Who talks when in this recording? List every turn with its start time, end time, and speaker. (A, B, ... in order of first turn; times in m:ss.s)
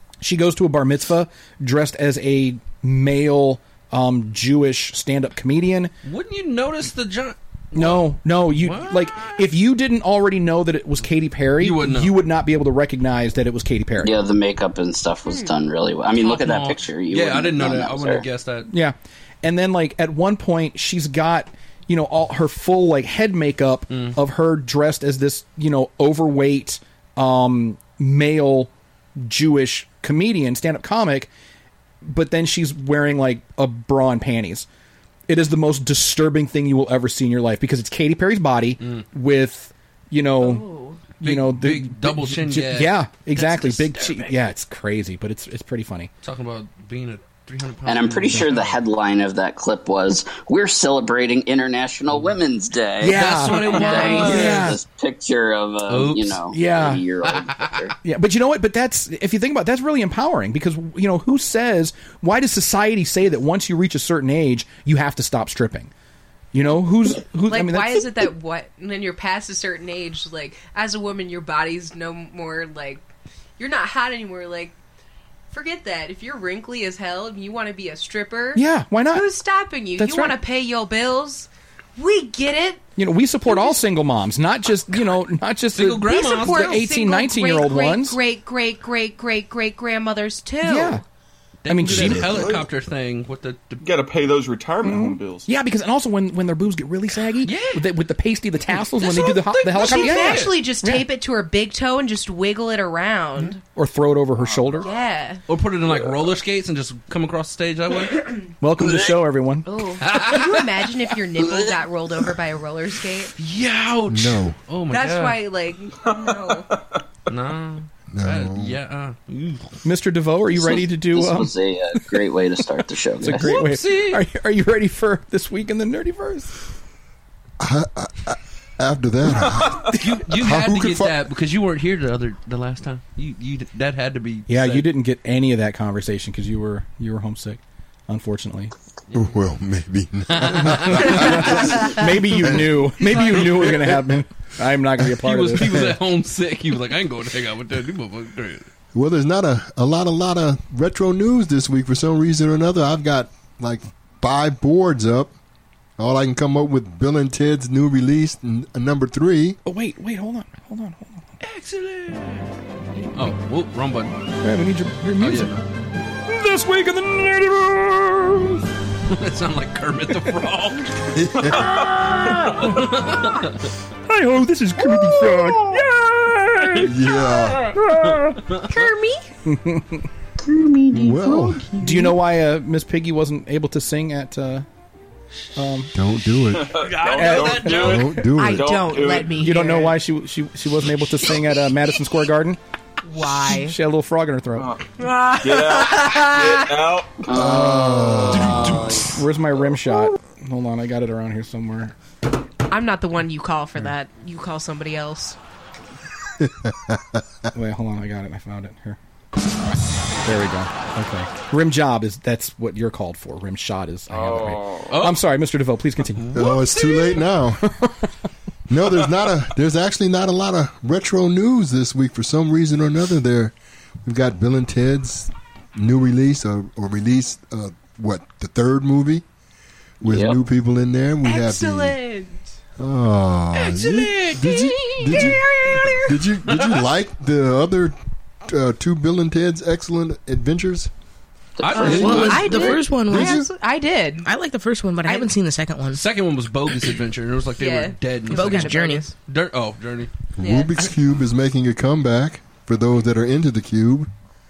0:00.2-0:05.9 A
0:06.0-0:09.4 B
0:07.8-0:14.1 A
0:11.6-0:12.2 B
0:14.0-0:18.3 C
0:15.3-0:15.5 D
0:16.2-0:18.7 B
0:18.7-0:31.3 A
0:23.9-0:24.2 B
0:32.0-0:34.7 A
0:35.3-0:40.6 A
0:40.4-0:41.0 D
0:41.2-0:46.1 A
0:41.2-0:44.3 B
0:46.2-0:48.8 B
0:47.9-0:58.0 C
0:48.3-0:48.6 A
0:53.0-0:54.8 A
0:53.0-0:54.8 B
0:53.8-0:54.6 D
0:55.9-0:56.4 B
0:56.5-0:57.0 A
0:57.3-0:57.7 B
0:58.0-1:05.9 A
1:06.5-1:08.0 A
1:07.5-1:13.1 D
1:13.6-1:14.8 D
1:15.5-1:22.8 D
1:18.6-1:19.3 A
1:20.0-1:20.4 A
1:23.0-1:28.2 A
1:23.5-1:23.8 D
1:25.7-1:26.8 B
1:26.0-1:31.0 D
1:30.6-1:31.0 A
1:31.6-1:33.8 B
1:31.7-1:32.5 A
1:31.9-1:32.7 E
1:33.8-1:35.5 E
1:34.8-1:41.0 A
1:37.4-1:37.8 B
1:38.9-1:40.6 B
1:39.7-1:43.6 D
1:43.6-1:44.9 A
1:44.4-1:44.9 E
1:44.8-1:45.4 D
1:45.5-1:48.3 B
1:45.8-1:46.3 E
1:48.6-1:49.7 A
1:49.6-1:53.3 D
1:50.0-1:50.7 B
1:51.4-1:51.8 C
1:53.4-1:55.4 B
1:54.1-1:54.6 F
1:54.9-1:56.7 D
1:56.0-1:56.8 E
1:57.3-1:59.8 B
1:58.1-1:58.8 F
1:59.8-2:01.5 A
2:00.5-2:03.6 C
2:03.2-2:06.6 A
2:03.3-2:04.2 B
2:07.6-2:11.2 F
2:10.0-2:14.9 B
2:14.5-2:18.7 A
2:19.1-2:22.8 F
2:20.4-2:21.7 B
2:21.0-2:26.0 A
2:23.0-2:24.0 B
2:25.0-2:28.7 B
2:28.9-2:35.4 F
2:36.0-2:39.6 F
2:39.6-2:41.2 A
2:41.4-2:42.5 B
2:43.1-2:44.2 B
2:44.4-2:45.5 A
2:45.2-2:45.6 B
2:46.3-2:48.6 A
2:49.1-2:51.1 B
2:51.1-2:51.7 F
2:52.0-2:52.8 A
2:52.6-2:53.7 B
2:54.1-2:56.9 A
2:56.8-2:57.7 F
2:57.4-2:58.9 B
2:57.7-2:58.4 A
2:58.7-2:59.3 D
2:59.5-3:00.1 A
3:00.9-3:01.7 F
3:01.8-3:04.7 A
3:05.6-3:05.9 A
3:06.0-3:06.9 F
3:06.5-3:09.5 E
3:06.8-3:08.2 B
3:07.1-3:07.7 A
3:07.6-3:08.9 F
3:08.2-3:10.0 D
3:09.4-3:12.6 A
3:13.0-3:13.8 D
3:13.3-3:14.7 A
3:14.6-3:17.1 E
3:15.0-3:16.7 D
3:17.2-3:19.2 C
3:17.3-3:18.9 F
3:18.3-3:19.0 B
3:18.7-3:22.0 A
3:22.7-3:25.4 D
3:26.4-3:27.2 F
3:27.5-3:29.0 A
3:30.2-3:36.4 A
3:34.1-3:35.0 E
3:34.9-3:35.2 B
3:36.2-3:36.5 B
3:36.3-3:37.7 F
3:37.8-3:38.0 A
3:38.7-3:49.2 F
3:50.0-3:52.0 F
3:50.0-3:50.4 C
3:51.2-3:52.5 D
3:52.8-3:55.4 F
3:54.4-3:56.2 D
3:56.0-4:00.9 F
4:01.6-4:02.9 C
4:01.6-4:02.7 B
4:01.8-4:03.5 G
4:01.9-4:04.3 D
4:03.1-4:03.5 F
4:04.2-4:06.0 G
4:05.0-4:05.3 D
4:05.9-4:10.1 B
4:07.6-4:09.2 D
4:08.3-4:09.1 G
4:10.4-4:10.9 D
4:10.4-4:14.1 F